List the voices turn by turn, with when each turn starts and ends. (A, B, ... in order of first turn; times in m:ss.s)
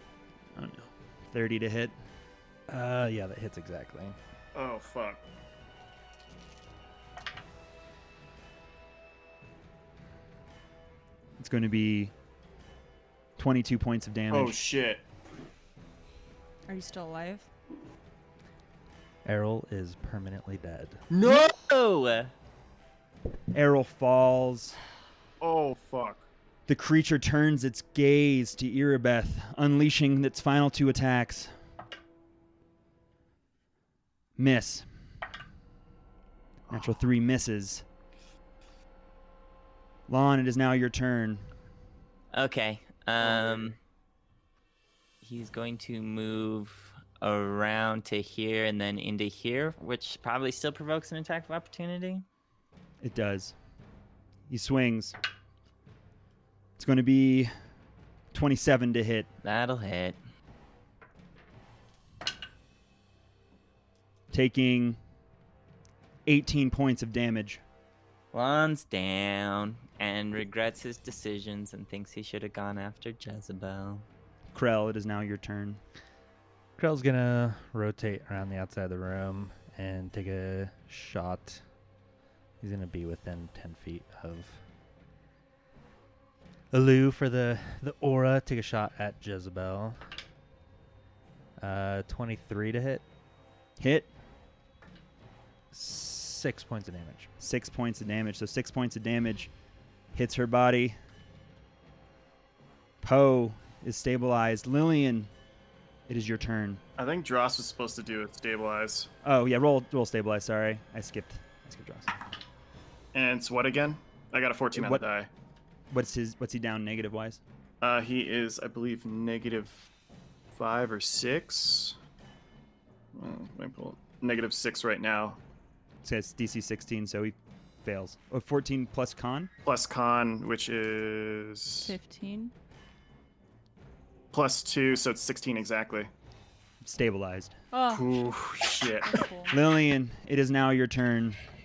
0:00.5-0:02.0 A
0:02.7-0:04.2 B
0:04.5-0:05.2 C
0:11.4-0:12.1 A
0:13.4-0:14.6 A
0:14.3-0:15.0 C
0:16.7-0:17.5 D
0:19.2-0:21.0 B
0:21.1-0:21.5 C
0:21.2-0:22.3 E
0:23.5-0:24.8 A
0:25.4-0:26.2 C
0:26.7-0:31.5 A
0:34.4-0:34.8 A
0:36.7-0:37.8 A
0:40.1-0:41.5 A
0:42.3-0:43.8 E
0:43.2-0:43.8 C
0:45.2-0:52.2 E
0:53.0-0:53.5 A
0:54.5-0:55.1 A
0:56.8-0:57.5 A
0:58.3-0:59.3 A
0:59.4-1:00.2 E
1:04.3-1:05.0 A
1:06.2-1:07.6 A
1:08.3-1:14.0 E
1:14.5-1:15.8 A
1:16.8-1:21.6 B
1:22.6-1:24.6 B
1:26.7-1:30.0 B
1:31.6-1:33.0 B
1:33.8-1:34.1 A
1:35.7-1:37.3 B
1:37.4-1:39.5 A
1:40.1-1:41.0 A
1:43.0-1:45.3 A
1:46.1-1:46.8 A
1:47.0-1:49.1 C
1:49.2-1:52.1 A
1:53.1-1:55.3 C
1:54.7-1:55.0 A
1:55.9-1:57.4 A
1:57.8-1:59.8 C
2:00.5-2:02.0 C
2:03.1-2:05.4 C
2:06.0-2:09.5 A
2:09.6-2:11.9 C
2:11.8-2:12.5 D
2:14.3-2:16.1 C
2:16.8-2:17.6 A
2:17.7-2:18.4 D
2:17.9-2:19.2 C
2:19.0-2:19.6 D
2:19.5-2:21.4 A